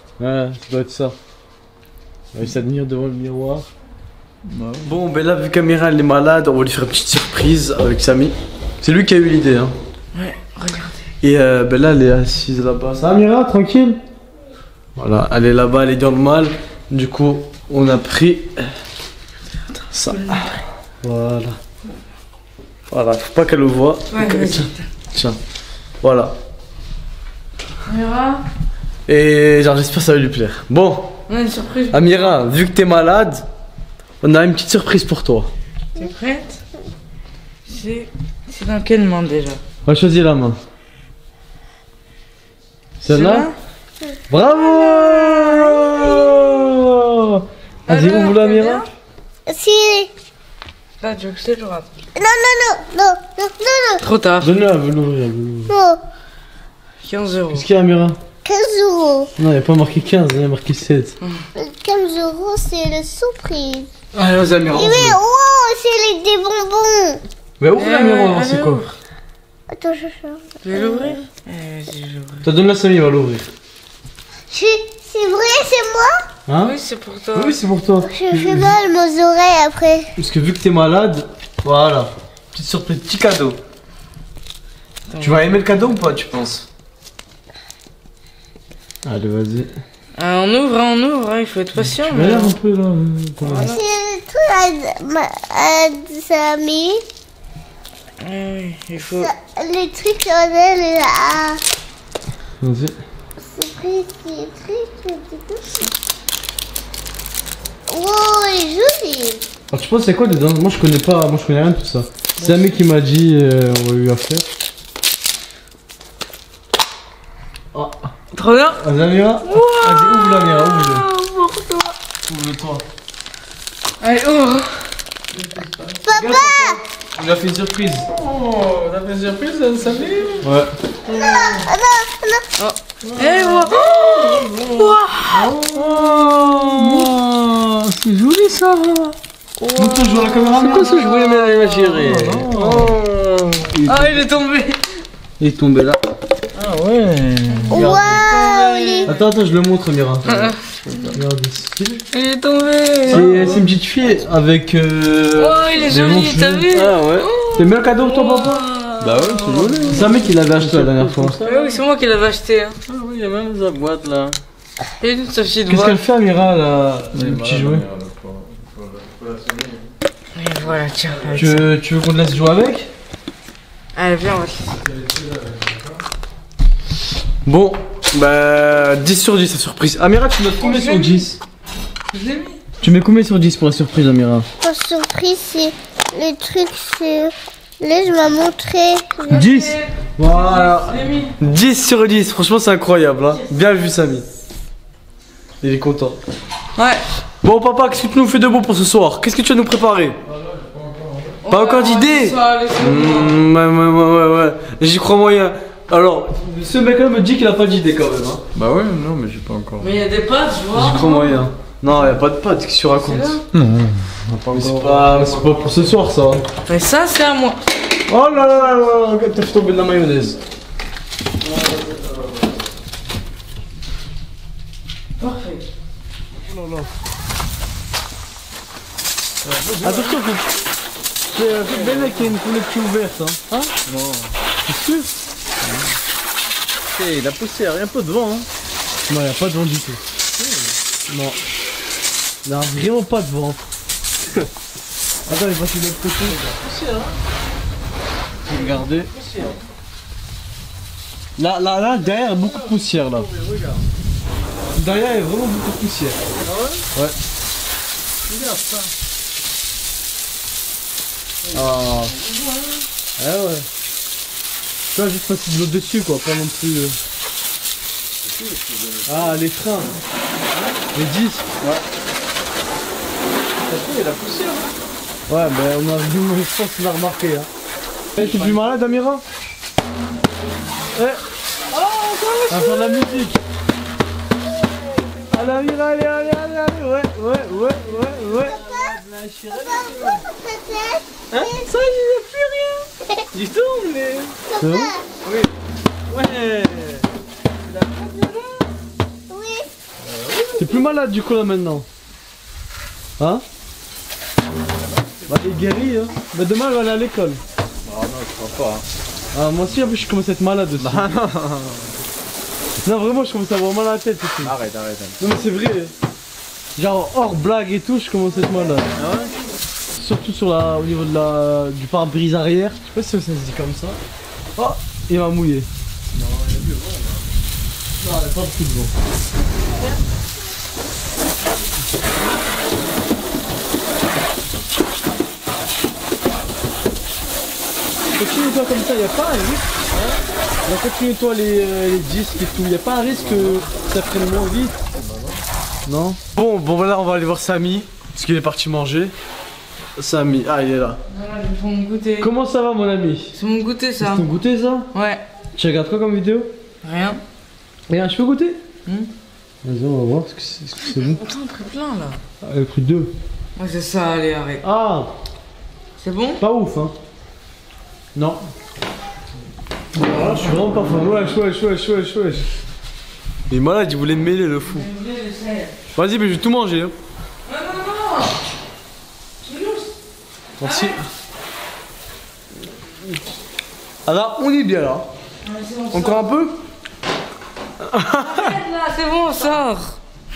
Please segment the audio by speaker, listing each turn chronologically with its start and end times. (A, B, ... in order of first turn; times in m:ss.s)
0:00.2-0:01.2 A
0:02.3-0:03.7 A
0:04.4-0:04.9 B
0:04.8-0:09.7 A
0:10.1-0:11.1 C
0:11.2-0:14.0 A
0:15.0-0:18.7 A
0:19.9-0:20.5 A
0:20.0-0:20.5 C
0:21.0-0:21.6 A
0:22.9-0:25.4 A
0:24.1-0:24.8 C
0:26.0-0:26.3 A
0:27.9-0:28.4 C
0:29.1-0:31.1 A
0:31.3-0:32.4 C
0:31.9-0:33.4 A
0:34.2-0:35.5 A
0:36.0-0:36.6 C
0:37.6-0:39.6 C
0:39.8-0:40.6 A
0:43.0-0:43.5 A
0:43.0-0:43.5 C
0:44.3-0:48.8 A
0:44.6-0:45.8 C
0:47.8-0:48.9 C
0:49.4-0:50.1 D
0:51.0-0:51.9 C
0:52.1-0:54.0 D
0:54.0-0:54.5 C
0:54.4-0:55.7 A
0:55.7-0:56.0 D
0:57.0-0:57.7 C
0:57.5-0:58.2 A
0:58.4-0:59.3 D
0:59.4-1:01.2 A
1:01.6-1:03.9 D
1:04.1-1:05.2 A
1:04.7-1:07.2 D
1:07.6-1:08.8 A
1:07.8-1:09.0 C
1:09.7-1:11.2 D
1:10.6-1:12.4 C
1:12.4-1:13.5 A
1:14.5-1:16.2 D
1:16.5-1:16.7 A
1:16.6-1:17.6 C
1:17.3-1:18.7 A
1:18.0-1:20.1 D
1:20.2-1:23.6 A
1:25.1-1:25.5 C
1:25.2-1:26.6 A
1:29.0-1:29.7 A
1:30.2-1:32.6 C
1:32.0-1:33.7 A
1:33.4-1:33.8 C
1:33.6-1:37.0 D
1:38.2-1:39.3 C
1:39.2-1:41.6 D
1:42.6-1:43.0 A
1:43.4-1:45.9 D
1:47.9-1:49.4 D
1:49.7-1:54.5 A
1:57.7-1:58.1 A
1:58.3-1:58.8 C
1:58.7-2:01.0 A
1:59.4-2:01.9 C
2:02.3-2:02.8 A
2:04.0-2:04.9 C
2:05.4-2:06.0 B
2:06.0-2:06.8 D
2:06.1-2:08.0 A
2:08.1-2:10.5 B
2:10.4-2:10.7 A
2:11.1-2:11.7 B
2:11.1-2:12.4 D
2:12.6-2:15.5 C
2:13.0-2:19.1 B
2:15.8-2:17.1 A
2:19.6-2:22.0 C
2:19.7-2:20.9 A
2:20.6-2:24.2 B
2:22.0-2:22.9 A
2:23.8-2:24.8 C
2:25.4-2:26.0 A
2:26.5-2:29.1 B
2:27.7-2:29.1 D
2:27.7-2:28.4 C
2:29.1-2:30.2 A
2:30.2-2:31.2 B
2:30.3-2:30.6 C
2:31.1-2:32.0 A
2:32.1-2:33.3 C
2:33.1-2:33.7 B
2:33.1-2:36.7 A
2:35.4-2:40.0 C
2:36.7-2:37.3 B
2:37.6-2:38.6 A
2:39.0-2:41.8 B
2:39.9-2:41.4 A
2:41.4-2:42.8 C
2:42.9-2:44.4 B
2:45.0-2:46.0 C
2:45.7-2:47.8 A
2:47.1-2:49.9 B
2:50.3-2:51.7 C
2:51.3-2:52.9 A
2:53.9-2:54.8 C
2:54.8-2:55.9 B
2:57.4-3:01.4 A
3:00.6-3:01.3 C
3:02.1-3:02.6 C
3:02.8-3:04.5 A
3:04.6-3:09.4 D
3:09.2-3:11.3 C
3:09.3-3:14.2 A
3:15.6-3:16.2 A
3:16.8-3:17.0 C
3:17.4-3:20.2 A
3:20.3-3:21.3 B
3:21.4-3:23.4 C
3:21.5-3:28.4 A
3:28.5-3:29.9 B
3:29.8-3:31.4 C
3:30.7-3:33.4 A
3:32.9-3:33.4 C
3:33.5-3:35.5 B
3:34.5-3:36.4 A
3:36.6-3:37.6 C
3:38.1-3:40.4 A
3:45.2-3:45.6 C
3:49.4-3:50.2 B
3:49.8-3:50.4 A
3:51.3-3:53.6 A
3:51.4-3:52.3 B
3:53.8-3:54.3 B
3:54.7-3:55.9 A
3:56.9-3:58.5 B
3:59.1-4:00.0 A
4:00.3-4:00.7 B
4:01.1-4:01.4 A
4:02.4-4:03.6 A
4:05.3-4:06.6 A
4:06.6-4:07.1 B
4:08.5-4:09.3 A
4:11.4-4:13.3 A
4:12.4-4:13.8 B
4:14.7-4:16.2 A
4:16.4-4:16.8 B
4:18.3-4:18.9 B
4:21.4-4:22.8 B
4:21.5-4:22.1 A
4:23.2-4:23.6 A
4:24.9-4:27.0 A
4:28.2-4:29.7 B
4:29.0-4:29.9 A
4:30.9-4:31.5 A
4:33.6-4:34.7 B
4:35.3-4:37.5 A
4:38.2-4:38.7 B
4:38.2-4:39.2 A
4:40.9-4:41.2 A
4:41.7-4:43.1 B
4:42.5-4:43.4 A
4:45.0-4:45.7 B
4:45.3-4:48.6 A
4:48.3-4:50.2 B
4:48.5-4:49.0 D
4:49.5-4:51.5 D
4:51.3-4:54.4 B
4:54.5-4:55.1 D
4:54.6-4:55.0 A
4:55.2-4:55.5 B
4:56.1-4:57.1 B
4:57.7-4:58.6 B
4:59.3-4:59.7 D
5:00.0-5:00.9 B
5:00.6-5:01.8 A
5:03.2-5:03.4 A
5:05.3-5:07.4 A
5:07.8-5:08.8 B
5:09.3-5:11.1 A
5:10.8-5:11.9 B
5:12.8-5:14.6 A
5:14.4-5:15.2 B
5:15.2-5:15.9 A
5:16.8-5:18.9 A
5:19.0-5:19.3 B
5:20.0-5:24.0 A
5:24.6-5:25.7 A
5:26.1-5:27.2 B
5:28.0-5:28.9 A
5:38.2-5:39.7 A
5:40.6-5:44.8 A
5:43.2-5:43.5 B
5:45.0-5:45.4 B
5:45.8-5:49.1 A
5:50.0-5:51.0 A
5:51.1-5:52.3 C
5:52.2-5:53.3 A
5:53.3-5:54.3 C
5:54.0-5:54.9 A
5:54.9-5:55.2 C
5:55.5-5:56.5 A
5:56.8-5:57.2 C
5:57.9-5:58.6 A
5:59.6-6:01.2 A
6:00.8-6:02.2 C
6:02.4-6:03.1 A
6:03.6-6:04.6 C
6:04.6-6:05.1 A
6:06.0-6:06.4 C
6:06.4-6:06.9 A
6:08.1-6:08.4 A
6:09.9-6:12.4 A
6:13.5-6:14.9 A
6:14.7-6:15.7 C
6:15.9-6:16.9 A
6:17.4-6:18.4 C
6:19.4-6:19.9 C
6:20.6-6:21.0 C
6:20.6-6:21.0 A
6:24.0-6:25.1 A
6:25.4-6:26.3 C
6:25.9-6:26.5 A
6:27.8-6:28.6 A
6:28.2-6:30.0 C